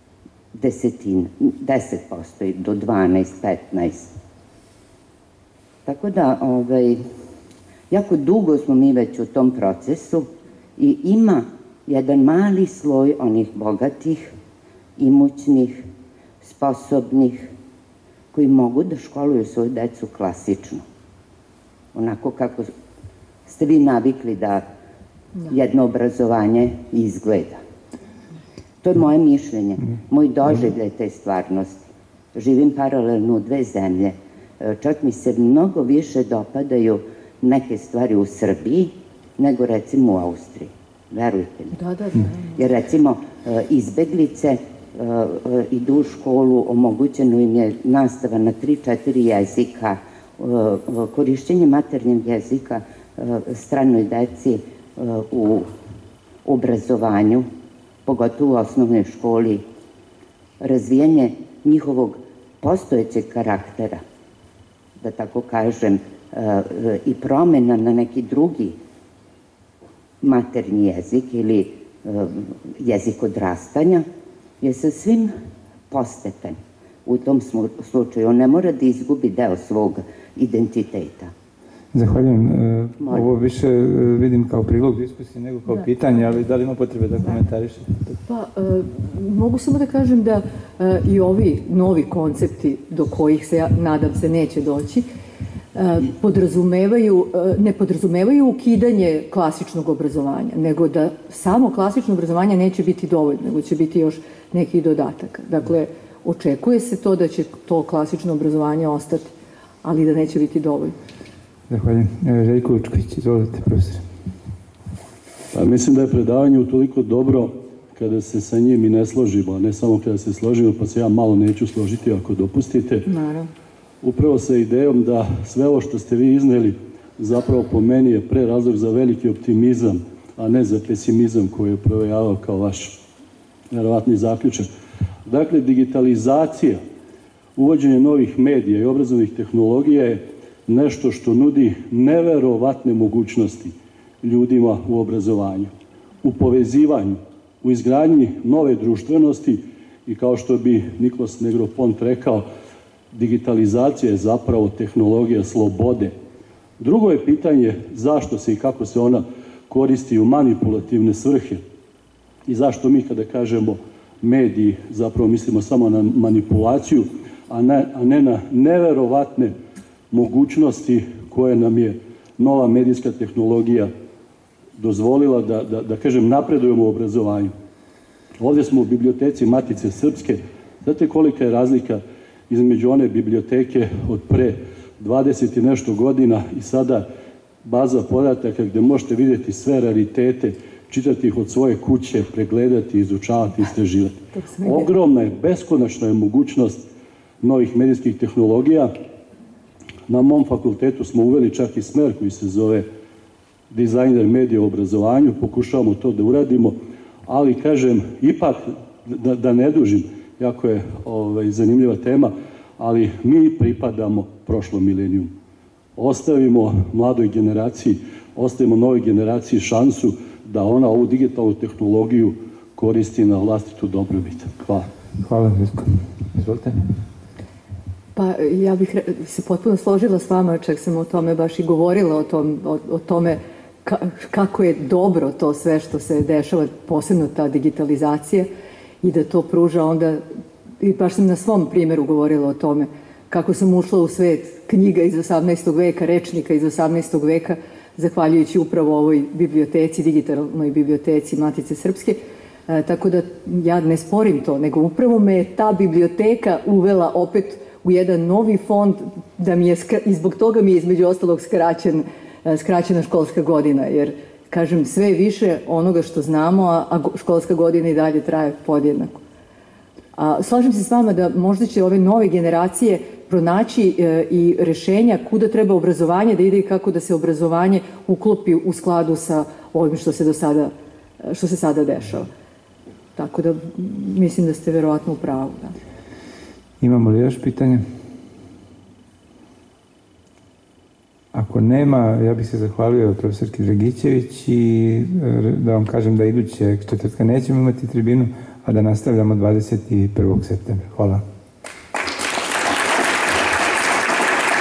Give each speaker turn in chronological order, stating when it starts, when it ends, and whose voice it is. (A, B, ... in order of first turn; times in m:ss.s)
0:00.5-0:04.1 A
0:05.9-0:07.0 A
0:07.9-0:14.3 A
0:15.0-0:15.8 A
0:16.4-0:17.5 A
0:18.3-0:20.8 A
0:21.9-0:22.7 A
0:23.5-0:24.6 A
0:25.5-0:27.6 A
0:28.8-0:41.8 A
0:41.7-0:42.6 B
0:42.6-0:55.7 A
0:56.4-0:57.5 A
0:58.1-0:59.6 A
1:00.6-1:04.0 A
1:05.0-1:08.8 A
1:10.2-1:14.1 A
1:14.6-1:15.3 A
1:15.9-1:21.3 A
1:21.9-1:28.2 C
1:23.0-1:23.3 A
1:28.3-1:35.1 B
1:35.8-1:51.0 B
1:51.7-1:54.0 C
1:55.5-2:03.1 D
2:03.1-2:03.5 B
2:04.0-2:13.0 D
2:13.7-2:14.7 D
2:15.3-2:16.8 D
2:17.6-2:25.7 D
2:26.2-2:32.4 D
2:33.1-2:36.1 D
2:36.8-2:41.6 D
2:42.5-2:49.5 D
2:50.1-2:53.9 D
2:54.8-2:57.5 D
2:58.4-3:07.1 D
3:07.6-3:16.8 D
3:14.4-3:14.9 B
3:17.4-3:18.9 D
3:20.1-3:22.9 D
3:23.7-3:26.8 D
3:27.3-3:35.3 D
3:36.0-3:44.9 D
3:45.2-3:46.8 C
3:48.2-3:58.5 B
3:59.0-4:00.2 B
4:00.8-4:29.2 B
4:30.2-4:42.3 B
4:43.2-4:45.8 B
4:46.8-4:47.8 C
4:51.3-5:01.2 C